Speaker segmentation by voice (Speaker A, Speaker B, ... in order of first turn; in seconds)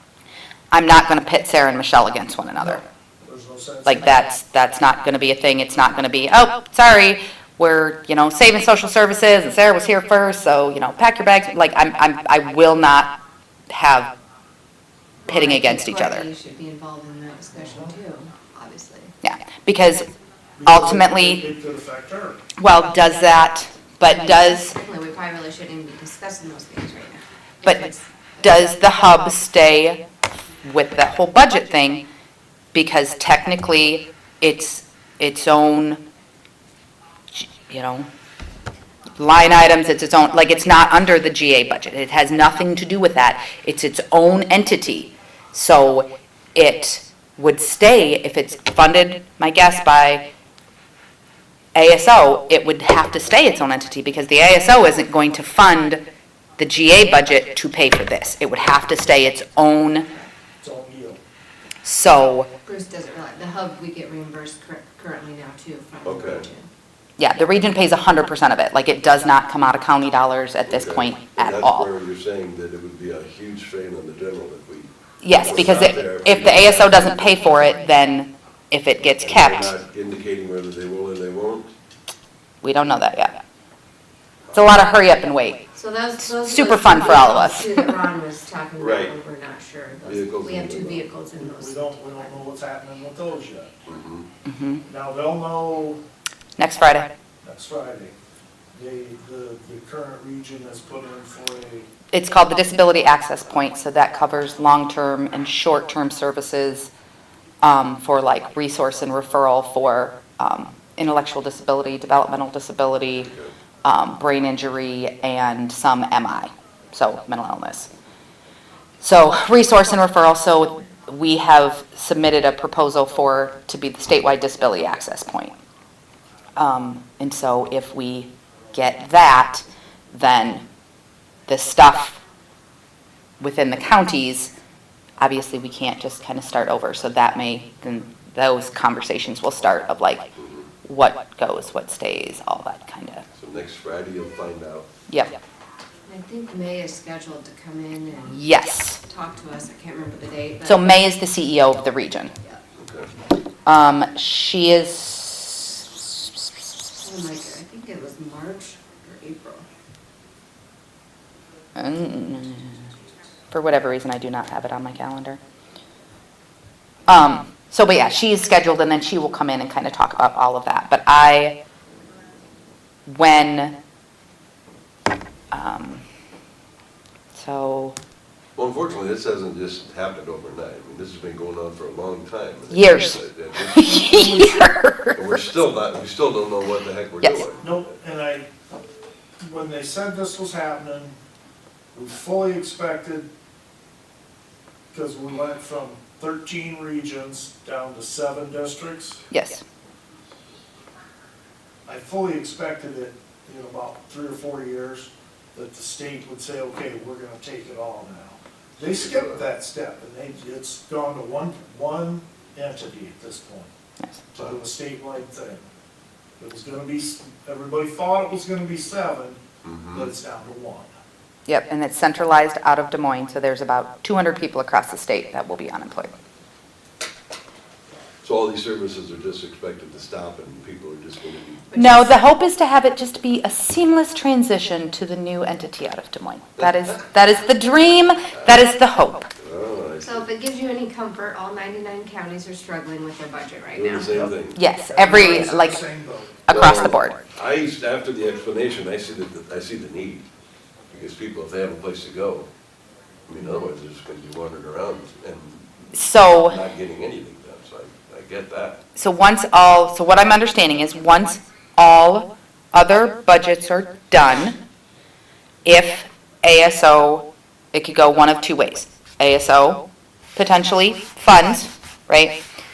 Speaker A: 0.7-2.8, 3.8-13.2, 13.7-14.1, 15.3-16.2, 19.2-20.1, 20.6-21.4, 22.6-24.7, 28.4-30.0, 30.6-32.0, 32.7-36.0, 37.3-38.1, 39.2-50.2, 51.7-56.0, 56.6-60.1, 61.8-62.5, 67.2-71.9, 75.2-79.7, 82.6-83.4, 84.5-85.7, 86.2-87.9, 94.5-94.8, 96.6-97.1, 102.1-106.9, 107.6-113.3, 113.8-117.9, 119.0-125.5, 126.5-130.6, 131.5-132.2, 133.4-134.5, 135.2-140.3, 140.8-143.2, 145.1-145.3, 148.3-149.0, 150.6-152.3, 153.6-156.0, 161.8-162.9, 163.5-165.4, 167.1-171.6, 173.1-173.8, 175.5-176.0, 177.3-177.9, 182.7-185.4, 199.3-199.6, 221.5-226.2, 231.8-239.3, 244.5-245.8, 246.5-247.2, 255.9-256.6, 258.9-264.6, 265.6-269.8, 270.4-272.4
Speaker B: 2.6-4.2, 17.5-17.9, 20.6-22.4, 60.6-61.2, 91.4-93.7, 94.8-96.0, 97.4-98.1, 98.7-101.9, 183.9-184.6, 187.6-188.5, 189.4-191.2, 191.9-193.3, 194.9-199.2, 201.8-213.7, 214.3-215.6, 216.4-219.4, 219.9-220.9, 244.1-246.5
Speaker C: 15.2-19.1, 24.0-28.1, 62.6-66.7, 85.7-92.2, 146.1-150.9, 157.0-159.7, 231.7-232.2, 240.0-244.1, 253.4-253.6
Speaker D: 66.0-66.4, 70.7-77.4, 79.2-81.7, 88.8-89.1, 90.0-91.1, 93.8-94.3, 140.4-140.6, 143.3-144.9, 152.8-153.1, 178.6-184.0, 185.1-187.6, 208.9-209.4, 219.6-220.1, 228.2-231.7, 239.4-240.3, 243.7-244.6, 246.5-250.2, 250.9-252.5, 253.3-258.8